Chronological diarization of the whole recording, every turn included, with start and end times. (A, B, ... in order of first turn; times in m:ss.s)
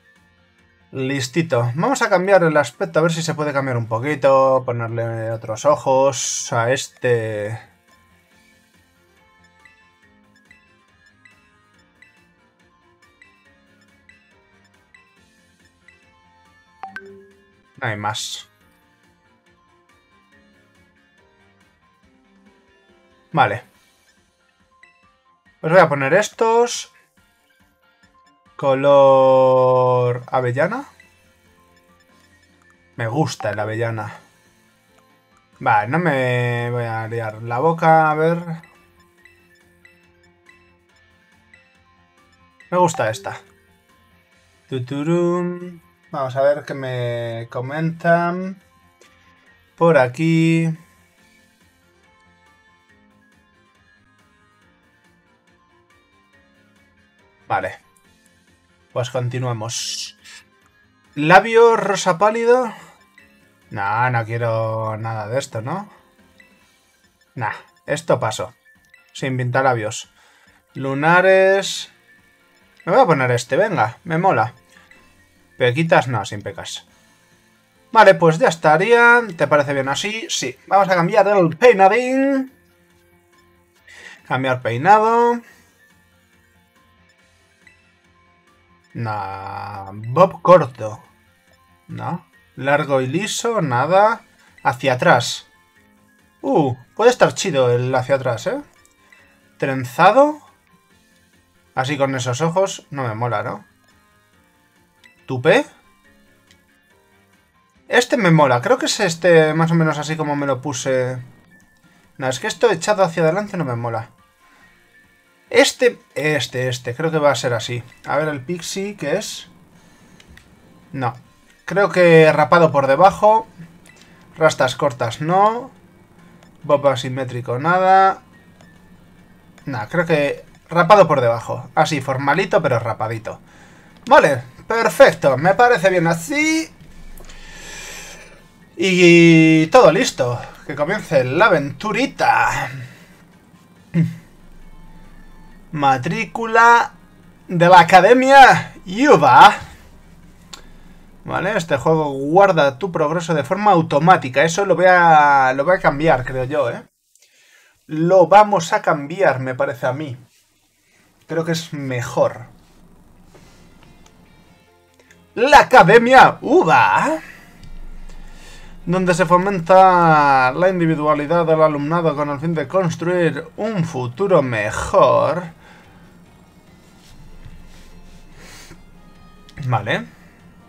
0:00.9-0:07.6 A
0:17.8-0:18.5 A
0:23.3-0:23.6 A
0:25.6-0:26.9 A
0:28.6-0:30.9 A
0:33.0-0:34.2 A
0:35.6-0:38.6 A
0:42.7-0:43.4 A
0:44.7-0:48.6 A
0:49.8-0:50.8 A
0:57.5-0:57.8 A
0:58.9-1:00.2 A
1:01.2-1:02.8 A
1:03.7-1:05.9 A
1:07.4-1:08.5 A
1:09.1-1:10.1 A
1:10.7-1:11.9 A
1:12.9-1:14.5 A
1:15.6-1:16.9 A
1:17.9-1:22.5 A
1:24.3-1:25.4 A
1:29.0-1:31.0 A
1:31.9-1:35.5 A
1:36.4-1:38.6 A
1:39.6-1:40.4 A
1:41.8-1:43.7 A
1:45.3-1:45.7 A
1:47.9-1:51.2 A
1:52.2-1:54.1 A
1:55.5-1:59.5 A
2:00.9-2:03.5 A
2:04.4-2:05.7 A
2:06.6-2:08.2 A
2:09.7-2:13.4 A
2:14.1-2:16.7 A
2:18.8-2:22.8 A
2:25.7-2:26.9 A
2:27.5-2:29.6 A
2:31.2-2:36.9 A
2:37.9-2:40.2 A
2:41.3-2:42.5 A
2:45.4-2:47.2 A
2:48.8-2:55.5 A
2:59.6-3:00.1 A